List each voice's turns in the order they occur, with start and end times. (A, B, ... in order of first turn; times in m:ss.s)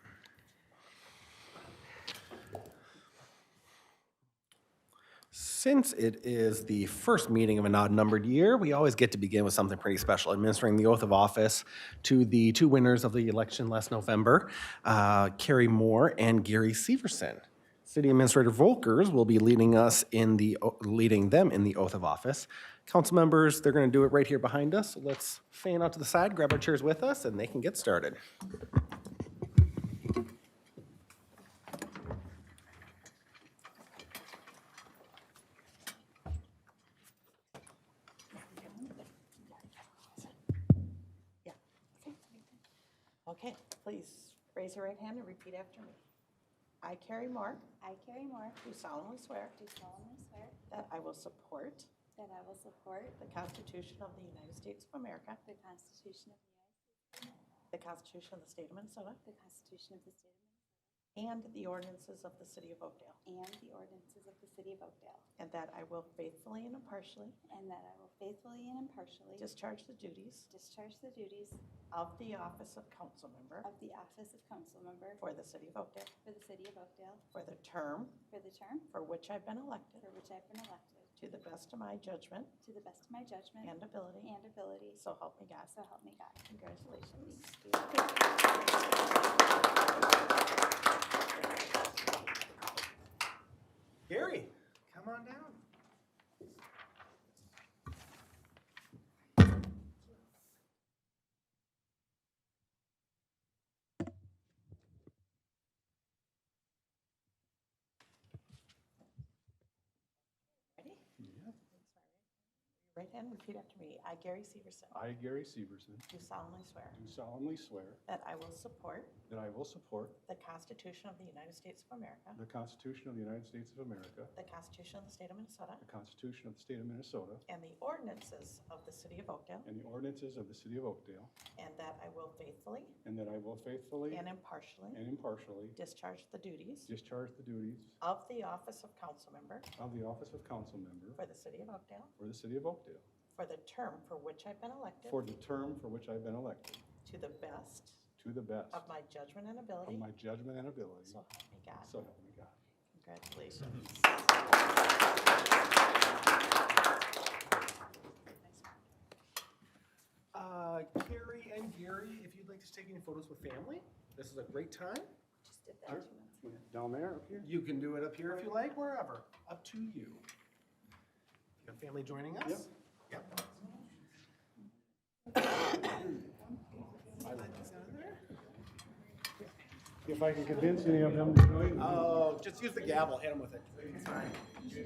0:05.3-0:28.2 A
0:41.4-0:42.2 B
0:43.2-0:46.0 B
0:46.8-0:47.7 B
0:47.8-0:48.6 C
0:48.6-0:49.6 B
0:49.6-0:50.6 C
0:50.7-0:51.9 B
0:52.2-0:53.2 C
0:53.2-0:55.4 B
0:55.4-0:57.3 C
0:57.7-0:59.2 B
0:59.2-1:00.6 C
1:01.2-1:03.2 B
1:03.2-1:05.2 C
1:05.4-1:07.4 B
1:07.5-1:09.4 C
1:09.4-1:10.5 B
1:10.5-1:11.6 C
1:11.9-1:13.7 B
1:13.6-1:15.2 C
1:15.2-1:16.1 B
1:16.2-1:17.2 C
1:17.3-1:18.2 B
1:18.3-1:18.9 C
1:18.9-1:20.1 B
1:20.0-1:21.1 C
1:21.2-1:22.5 B
1:22.6-1:25.0 C
1:23.6-1:24.3 B
1:25.0-1:25.8 B
1:25.7-1:26.4 C
1:26.5-1:28.0 B
1:34.1-1:35.6 A
1:50.7-1:51.0 B
1:51.2-1:51.6 D
1:51.7-1:52.2 B
1:52.8-1:55.0 B
1:54.9-1:56.1 D
1:56.1-1:57.0 B
1:56.9-1:58.0 D
1:58.1-1:59.1 B
1:59.3-2:00.2 D
2:00.2-2:02.4 B
2:02.4-2:04.3 D
2:04.3-2:05.8 B
2:05.8-2:07.4 D
2:07.5-2:09.7 B
2:09.6-2:11.3 D
2:11.6-2:13.0 B
2:13.0-2:14.3 D
2:14.1-2:15.0 B
2:14.9-2:15.8 D
2:15.8-2:16.9 B
2:16.9-2:18.0 D
2:18.0-2:19.7 B
2:19.8-2:21.2 D
2:21.2-2:22.1 B
2:22.2-2:23.0 D
2:23.3-2:25.2 B
2:25.0-2:26.8 D
2:27.0-2:28.0 B
2:28.2-2:28.9 D
2:28.7-2:30.1 B
2:29.8-2:31.2 D
2:31.0-2:32.0 B
2:31.8-2:32.6 D
2:32.9-2:34.3 B
2:40.3-2:45.1 A
2:45.4-2:46.4 C
2:45.8-2:47.5 D
2:47.4-2:50.3 A
2:51.6-2:53.2 A
2:57.2-2:58.2 A
3:00.0-3:02.0 D
3:01.8-3:04.3 A